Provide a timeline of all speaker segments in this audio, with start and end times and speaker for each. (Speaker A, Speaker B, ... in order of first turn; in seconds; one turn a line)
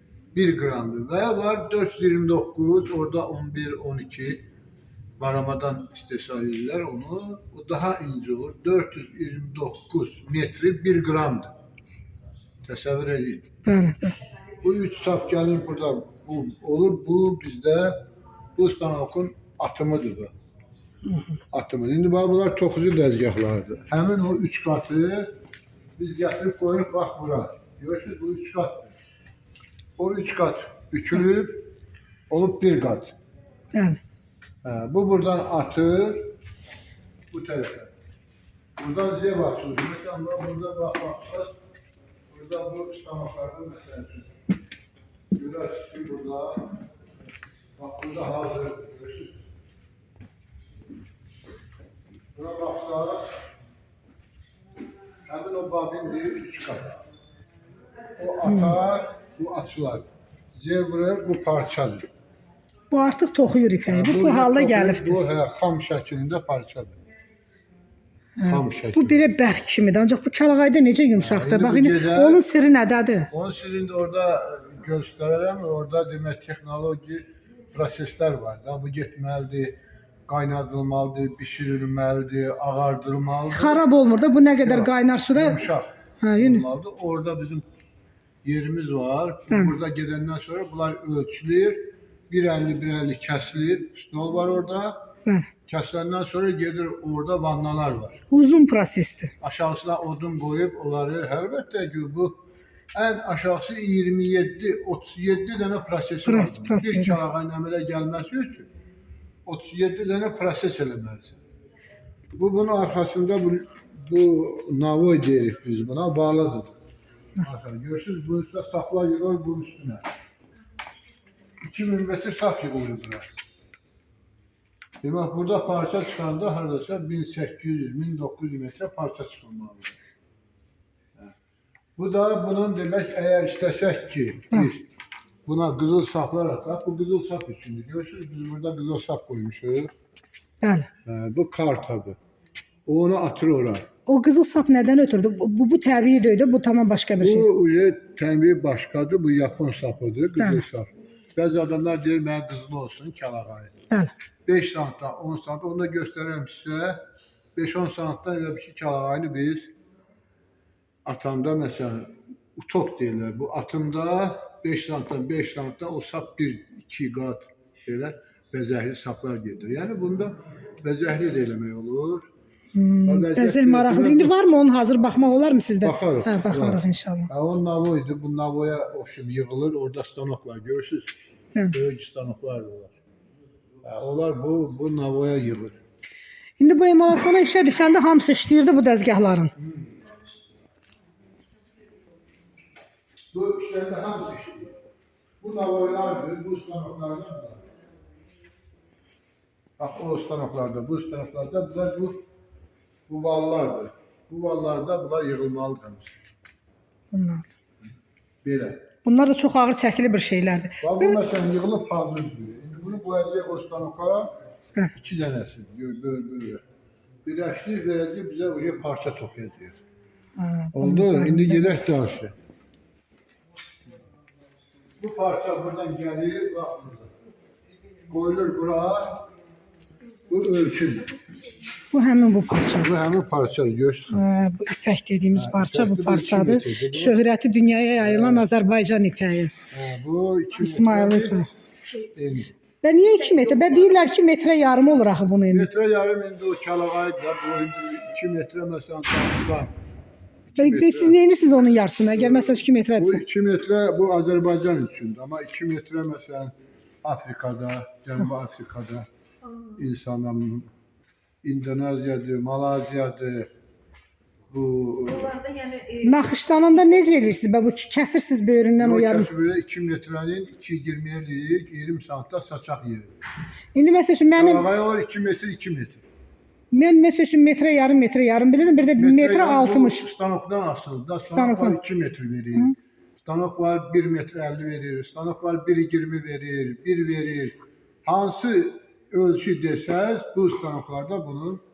Speaker A: 0.3-4.5
Speaker A: 5.2-11.5
Speaker A: 12.6-13.5
Speaker B: 13.6-14.2
Speaker A: 14.6-18.0
Speaker A: 18.6-20.3
Speaker B: 21.1-21.4
Speaker A: 21.5-25.3
Speaker A: 26.0-28.9
Speaker A: 30.0-31.7
Speaker A: 32.3-33.1
Speaker B: 33.7-34.0
Speaker A: 34.6-36.3
Speaker A: 37.3-37.9
Speaker A: 38.8-41.5
Speaker A: 42.3-44.3
Speaker A: 45.3-46.8
Speaker A: 47.8-49.4
Speaker A: 52.3-53.3
Speaker A: 55.3-57.0
Speaker A: 58.2-62.1
Speaker B: 58.4-58.8
Speaker B: 62.9-65.2
Speaker A: 63.9-67.0
Speaker B: 68.4-73.3
Speaker A: 68.4-69.2
Speaker A: 71.1-72.4
Speaker A: 73.3-83.8
Speaker B: 83.5-85.6
Speaker A: 84.6-87.6
Speaker B: 86.2-86.6
Speaker A: 88.4-95.1
Speaker A: 95.7-98.2
Speaker B: 98.3-99.3
Speaker A: 99.4-102.4
Speaker A: 102.9-108.7
Speaker B: 106.2-107.2
Speaker A: 109.4-111.4
Speaker A: 112.4-116.8
Speaker A: 117.4-120.0
Speaker A: 121.7-123.3
Speaker A: 125.0-129.9
Speaker A: 132.0-134.9
Speaker A: 135.4-139.9
Speaker B: 140.6-140.9
Speaker A: 141.1-142.2
Speaker A: 142.9-143.9
Speaker B: 144.1-147.4
Speaker A: 147.2-153.7
Speaker B: 150.4-150.6
Speaker A: 154.5-157.0
Speaker A: 157.6-159.7
Speaker A: 161.1-172.2
Speaker B: 172.7-177.3
Speaker A: 173.1-174.3
Speaker A: 175.8-181.1
Speaker A: 181.7-183.0
Speaker A: 183.8-185.8
Speaker B: 186.6-189.5
Speaker A: 189.6-189.9
Speaker A: 193.3-194.7
Speaker A: 195.4-197.6
Speaker A: 199.8-202.2
Speaker A: 203.1-206.2
Speaker B: 207.1-207.4
Speaker A: 208.4-208.8
Speaker B: 209.1-211.2
Speaker A: 210.8-214.3
Speaker A: 214.9-216.6
Speaker A: 217.2-219.8
Speaker B: 220.4-221.6
Speaker A: 220.8-222.3
Speaker A: 225.0-227.1
Speaker A: 228.1-229.2
Speaker A: 230.3-231.2
Speaker B: 231.9-232.9
Speaker A: 232.8-234.2
Speaker B: 234.1-239.5
Speaker A: 235.3-237.2
Speaker A: 238.0-238.4
Speaker A: 239.7-241.4
Speaker B: 240.6-241.5
Speaker A: 242.1-242.6
Speaker B: 242.8-245.7
Speaker C: 243.2-243.9
Speaker A: 245.5-249.7
Speaker A: 250.5-251.2
Speaker B: 250.6-253.2
Speaker A: 252.1-259.1
Speaker C: 259.4-259.8
Speaker A: 259.8-260.7
Speaker A: 261.4-263.5
Speaker A: 264.5-265.3
Speaker C: 265.1-267.1
Speaker B: 266.0-269.3
Speaker A: 268.8-273.1
Speaker B: 273.7-274.6
Speaker A: 274.3-276.0
Speaker B: 276.7-280.0
Speaker A: 279.0-291.6
Speaker B: 281.2-281.8